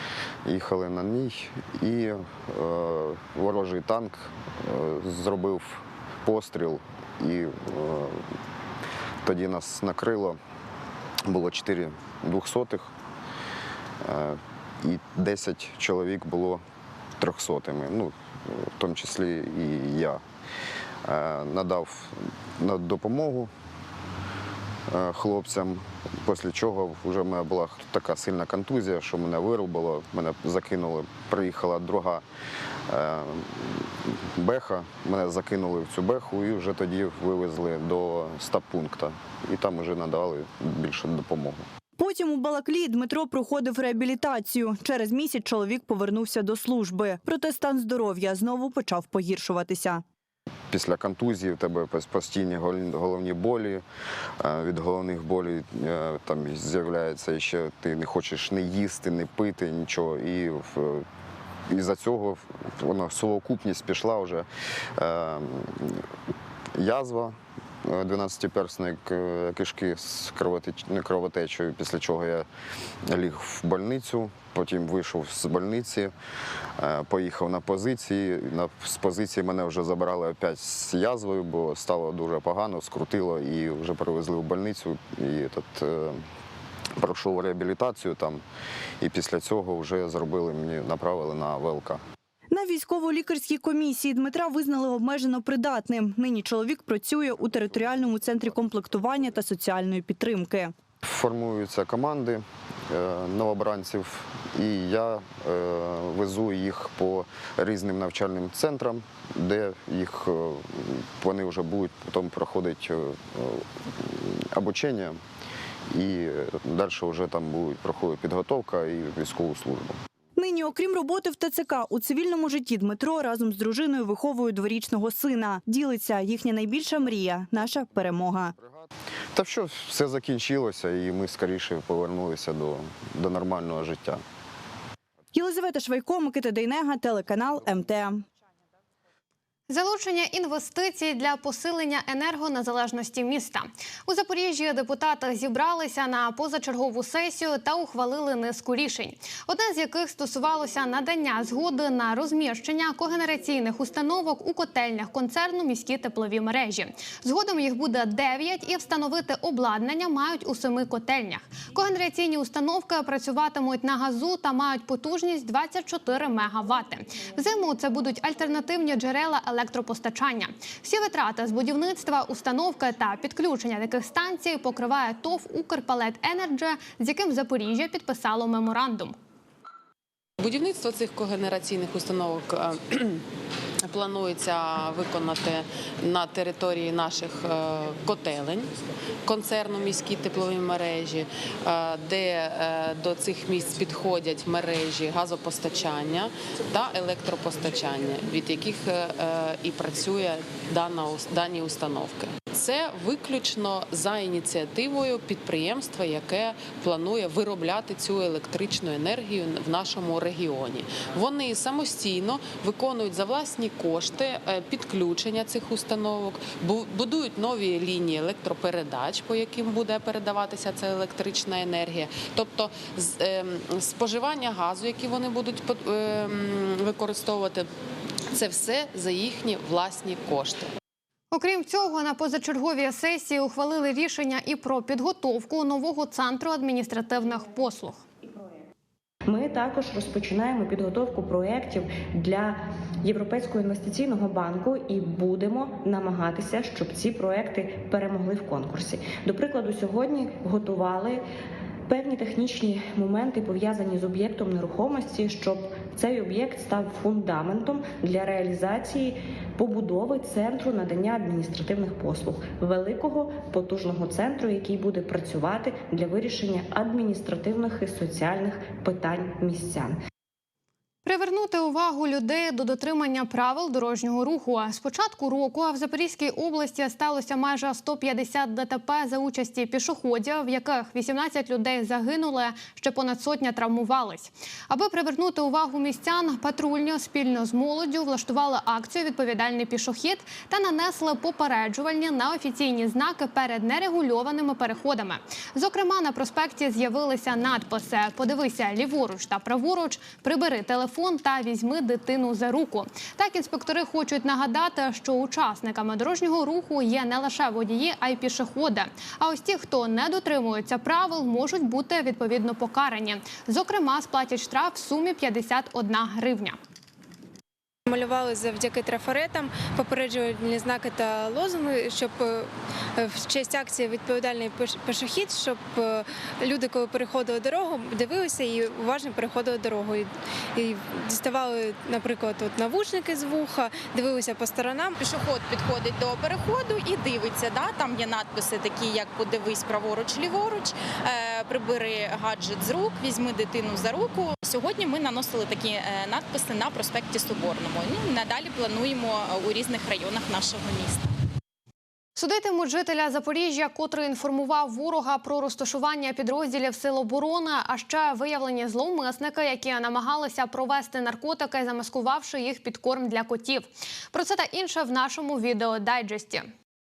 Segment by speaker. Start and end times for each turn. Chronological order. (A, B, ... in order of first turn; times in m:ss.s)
0:00.4-0:08.2 A
0:09.2-0:10.4 A
0:11.2-0:12.9 A
0:14.0-0:16.6 A
0:17.2-0:20.2 A
0:21.0-0:23.5 A
0:24.9-0:32.2 A
0:32.9-0:41.6 A
0:42.0-0:50.0 B
0:50.7-0:53.8 A
0:54.4-1:01.0 A
1:01.7-1:06.0 A
1:06.8-1:12.5 A
1:13.1-1:16.1 A
1:16.8-1:26.2 A
1:27.0-1:28.4 A
1:29.0-1:32.0 A
1:32.5-1:40.7 B
1:41.0-1:55.2 A
1:55.9-2:00.0 A
2:00.4-2:08.5 B
2:09.3-2:14.2 A
2:15.3-2:18.2 B
2:19.7-2:59.1 C
3:00.4-3:03.2 D
3:03.8-3:08.7 D
3:09.2-3:47.7 D
3:48.3-3:50.7 D
3:51.3-3:58.0 C
3:59.2-4:11.2 E
4:11.9-4:30.0 E
4:31.0-5:16.6 C
5:17.9-5:35.0 F
5:35.0-5:51.1 G
5:52.2-6:06.5 C